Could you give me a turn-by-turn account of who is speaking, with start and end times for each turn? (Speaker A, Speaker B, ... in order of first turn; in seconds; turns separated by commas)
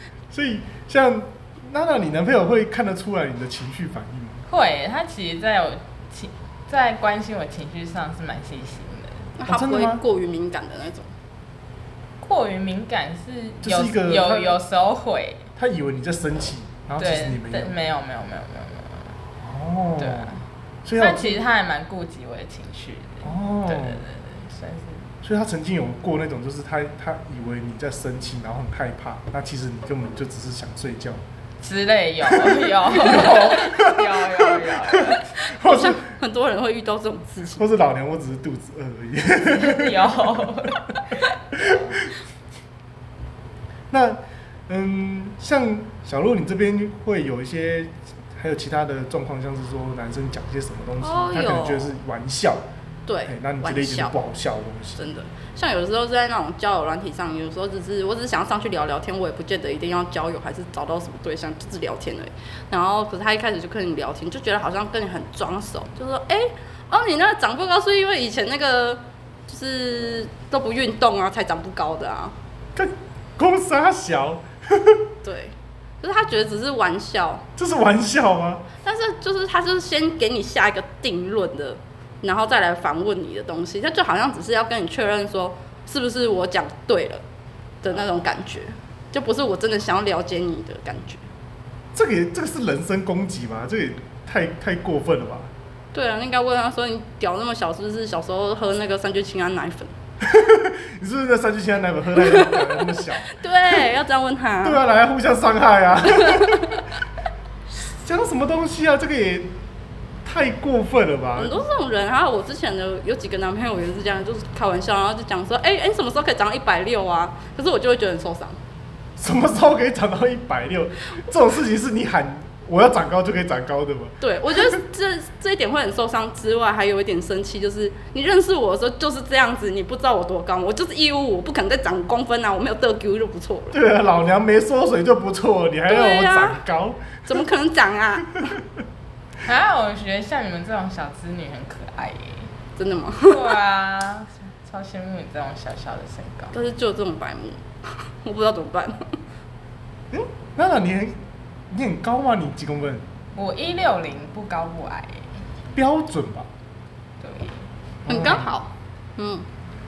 Speaker A: 0.3-4.5, Speaker B: 4.5-9.2, Speaker C: 9.4-11.1, Speaker A: 9.5-10.0, Speaker B: 12.2-15.5, Speaker A: 13.6-14.6, Speaker A: 15.6-17.7, Speaker B: 17.0-19.1, Speaker A: 19.4-21.4, Speaker B: 20.0-20.4, Speaker B: 21.0-25.1, Speaker A: 23.2-24.0, Speaker A: 25.2-31.2, Speaker B: 31.6-35.4, Speaker A: 32.2-36.0, Speaker C: 35.5-37.6, Speaker A: 37.6-40.7, Speaker B: 39.5-42.0, Speaker A: 41.5-41.8, Speaker A: 43.9-52.6, Speaker C: 51.0-51.9, Speaker C: 53.1-54.2, Speaker A: 53.3-55.0, Speaker C: 55.0-72.3, Speaker A: 72.8-75.0, Speaker C: 75.2-77.5, Speaker A: 77.6-78.7, Speaker C: 78.8-87.2, Speaker C: 87.8-91.2, Speaker A: 91.9-95.5, Speaker C: 95.9-99.9, Speaker A: 100.2-103.4, Speaker C: 102.2-104.8, Speaker A: 104.6-106.9, Speaker C: 106.1-106.8, Speaker A: 107.7-109.5, Speaker A: 110.2-111.6, Speaker C: 111.4-118.6, Speaker A: 119.2-124.8, Speaker C: 124.2-133.8, Speaker A: 133.7-137.3, Speaker C: 135.9-136.6, Speaker C: 137.3-138.5, Speaker B: 139.4-142.5, Speaker C: 142.8-143.5, Speaker B: 143.3-146.5, Speaker C: 146.5-149.2, Speaker A: 150.1-151.2, Speaker A: 151.7-153.1, Speaker B: 153.4-155.3, Speaker A: 155.8-156.5, Speaker B: 157.2-157.7, Speaker A: 158.1-158.5, Speaker C: 158.1-159.5